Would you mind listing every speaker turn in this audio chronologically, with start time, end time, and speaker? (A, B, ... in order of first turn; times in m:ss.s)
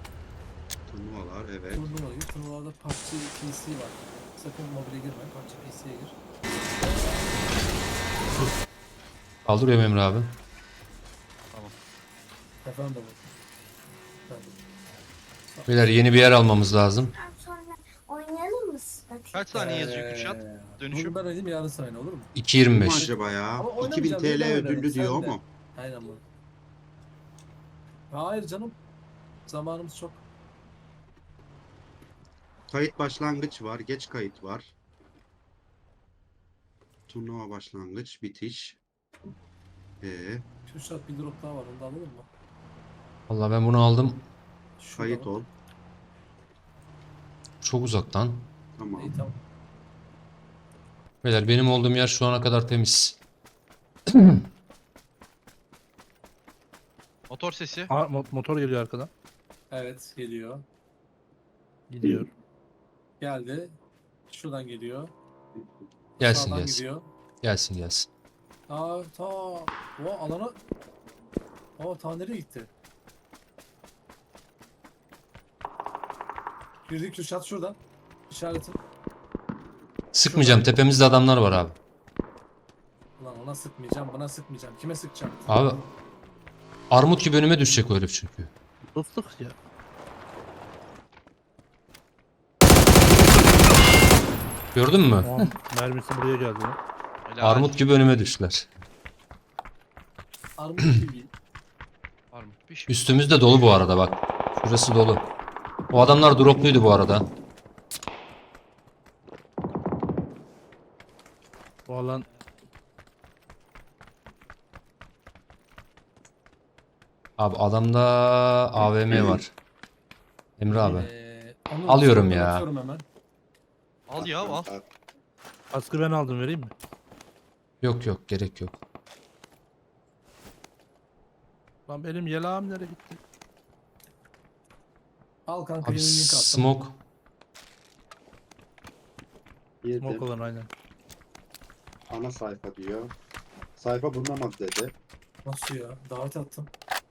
0:00.9-0:01.9 A
0:01.7-0:06.2 B
0:06.8-0:07.3 B
0:09.4-0:10.4 C
0:12.6-0:13.2 B
0:14.3-0:14.6 B
0:15.7-0:17.1 C
0:17.2-0:19.3 D
0:19.3-0:21.2 E
0:19.5-0:22.3 B
0:22.3-0:23.1 C
0:22.7-0:25.4 A
0:22.9-0:26.2 B
0:28.1-0:28.8 B
0:29.4-0:30.2 B
0:32.7-0:34.7 A
0:37.1-0:38.8 A
0:40.0-0:40.4 A
0:40.7-0:42.3 B
0:43.3-0:44.3 C
0:44.8-0:45.3 B
0:45.0-0:45.5 A
0:47.6-0:48.5 C
0:48.8-0:49.1 A
0:49.0-0:49.4 B
0:51.2-0:53.2 C
0:54.1-0:54.4 C
0:57.3-0:57.9 E
0:57.9-0:59.1 F
0:59.7-1:00.6 B
1:01.9-1:02.3 F
1:03.2-1:03.8 B
1:04.3-1:05.1 B
1:06.2-1:06.8 C
1:06.2-1:07.0 B
1:07.4-1:08.1 C
1:08.7-1:10.6 B
1:11.8-1:12.7 B
1:16.8-1:18.8 B
1:20.1-1:21.8 C
1:20.3-1:20.7 B
1:23.2-1:25.5 B
1:25.5-1:25.8 C
1:26.9-1:28.5 C
1:28.9-1:29.6 F
1:34.7-1:35.3 C
1:35.2-1:36.8 F
1:37.2-1:37.8 E
1:37.4-1:38.7 C
1:40.6-1:41.3 B
1:42.3-1:43.0 E
1:42.9-1:45.3 C
1:45.9-1:47.2 C
1:51.9-1:52.3 F
1:57.4-1:59.5 C
1:59.1-1:59.4 A
2:00.6-2:01.1 C
2:00.7-2:03.0 B
2:01.8-2:02.6 C
2:04.1-2:04.7 E
2:04.2-2:04.8 A
2:05.7-2:06.7 F
2:07.8-2:08.7 C
2:11.9-2:13.2 F
2:15.5-2:16.8 B
2:15.8-2:17.0 C
2:19.8-2:20.3 A
2:20.0-2:20.7 F
2:22.0-2:23.1 A
2:23.8-2:24.9 A
2:25.4-2:26.7 B